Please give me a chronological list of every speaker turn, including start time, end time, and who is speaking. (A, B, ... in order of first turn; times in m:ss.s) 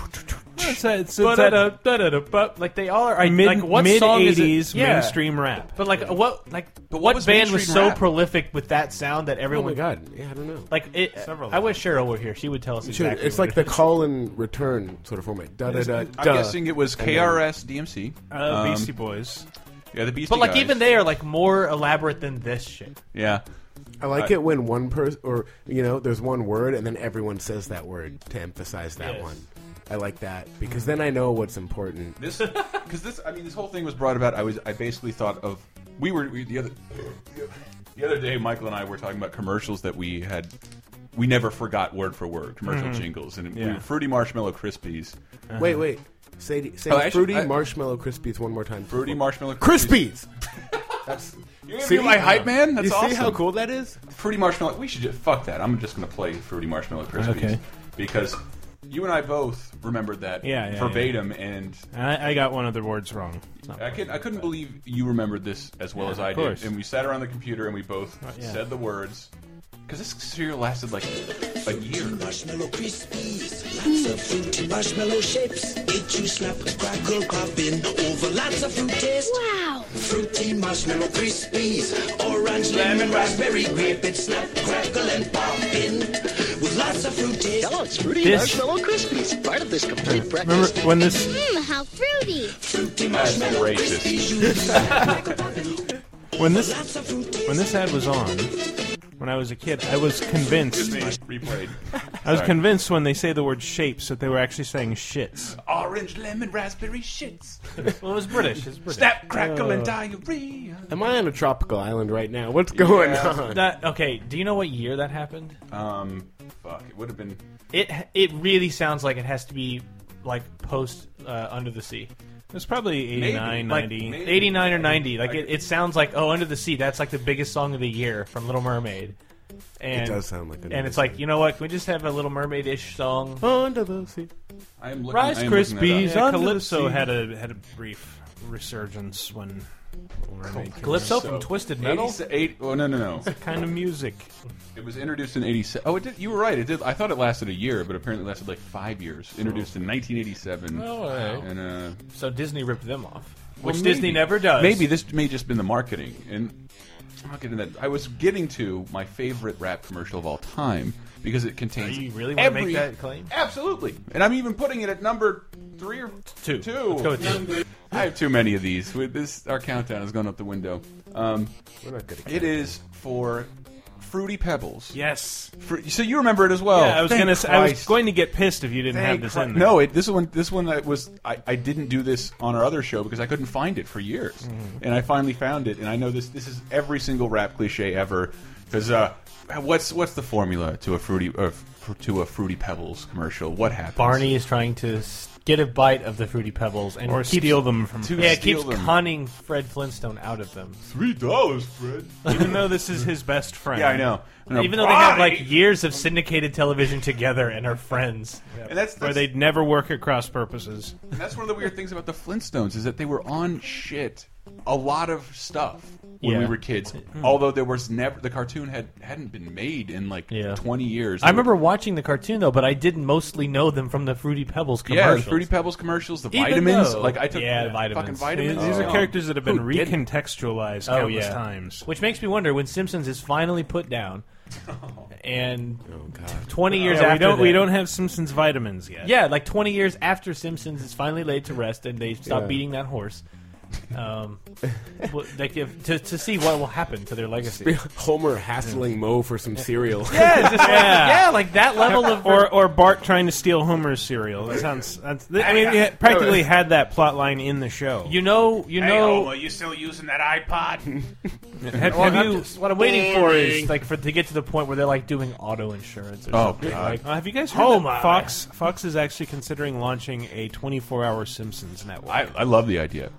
0:00.6-0:01.8 A
0:01.2-0:05.2 B
0:03.2-0:05.7 A
0:05.8-0:09.8 B
0:06.9-0:08.0 C
0:09.5-0:11.3 D
0:10.7-0:13.8 B
0:12.8-0:17.4 D
0:15.7-0:18.9 C
0:18.3-0:19.4 A
0:19.9-0:20.9 C
0:20.3-0:23.0 B
0:23.1-0:23.4 C
0:24.0-0:32.2 D
0:29.0-0:29.4 B
0:32.2-0:37.2 C
0:38.0-0:40.5 C
0:41.1-0:45.2 C
0:42.6-0:43.8 A
0:45.5-0:45.8 A
0:45.6-0:50.3 D
0:46.9-0:47.5 C
0:48.9-0:50.2 C
0:51.0-0:54.0 D
0:51.6-0:53.4 C
0:54.1-1:01.8 C
0:57.2-0:57.6 A
1:00.4-1:01.2 A
1:01.9-1:04.2 A
1:03.8-1:09.3 C
1:06.0-1:06.7 A
1:08.2-1:08.6 A
1:09.9-1:12.2 C
1:11.8-1:27.8 E
1:19.2-1:19.9 F
1:27.8-1:30.0 G
1:28.2-1:28.6 B
1:30.0-1:31.3 A
1:31.2-1:32.5 F
1:32.5-1:35.8 E
1:33.1-1:35.2 C
1:36.4-1:36.8 A
1:36.4-1:37.8 E
1:37.4-1:38.5 A
1:39.2-1:41.1 A
1:40.7-1:42.5 C
1:42.2-1:45.6 A
1:45.5-1:47.8 C
1:48.0-1:49.1 B
1:48.8-1:50.9 C
1:49.4-1:49.9 D
1:50.9-1:53.7 D
1:52.7-1:53.4 C
1:53.4-1:55.6 B
1:55.7-1:57.4 C
1:57.7-2:02.1 B
2:02.5-2:04.4 A
2:03.1-2:05.5 C
2:03.7-2:09.2 B
2:09.8-2:13.5 B
2:09.9-2:11.2 D
2:13.4-2:14.3 D
2:14.8-2:16.1 C
2:15.1-2:17.0 B
2:16.0-2:19.7 A
2:20.3-2:21.1 D
2:20.4-2:21.1 A
2:20.8-2:22.2 B
2:20.8-2:23.3 C
2:23.3-2:24.3 A
2:24.7-2:32.0 C
2:30.7-2:31.5 B
2:32.1-2:34.9 B
2:33.6-2:36.6 C
2:37.2-2:51.5 C
2:41.8-2:43.3 B
2:46.4-2:47.4 B
2:51.8-2:52.8 D
2:52.2-2:53.5 C
2:54.0-2:55.0 C
2:54.9-2:55.5 A
2:55.6-2:58.0 C
2:56.7-2:59.8 A
2:58.9-3:14.4 C
3:04.4-3:04.8 A
3:14.0-3:20.8 B
3:17.1-3:18.5 A
3:18.0-3:19.0 C
3:20.8-3:22.6 C
3:22.2-3:24.1 A
3:23.7-3:26.1 C
3:24.5-3:28.7 B
3:28.6-3:29.3 C
3:29.0-3:31.0 A
3:31.1-3:41.5 C
3:36.2-3:36.6 B
3:40.3-3:40.6 B
3:41.2-3:45.5 B
3:44.8-3:49.2 C
3:46.3-3:49.0 B
3:48.3-3:51.8 A
3:49.4-3:50.0 D
3:50.8-3:54.2 B
3:54.7-3:55.1 C
3:55.2-3:57.7 B
3:55.8-3:56.7 D
3:56.7-3:59.1 A
3:59.0-4:03.2 B
4:02.2-4:02.6 D
4:03.9-4:04.4 B
4:05.0-4:07.8 B
4:07.4-4:10.7 D
4:10.1-4:12.5 B
4:10.4-4:18.2 A
4:15.4-4:15.8 C
4:16.0-4:16.4 D
4:18.0-4:19.4 B
4:18.7-4:21.0 C
4:21.6-4:22.5 A
4:21.7-4:23.0 C
4:21.9-4:28.4 B
4:26.3-4:27.0 C
4:27.0-4:32.3 A
4:32.0-4:33.1 C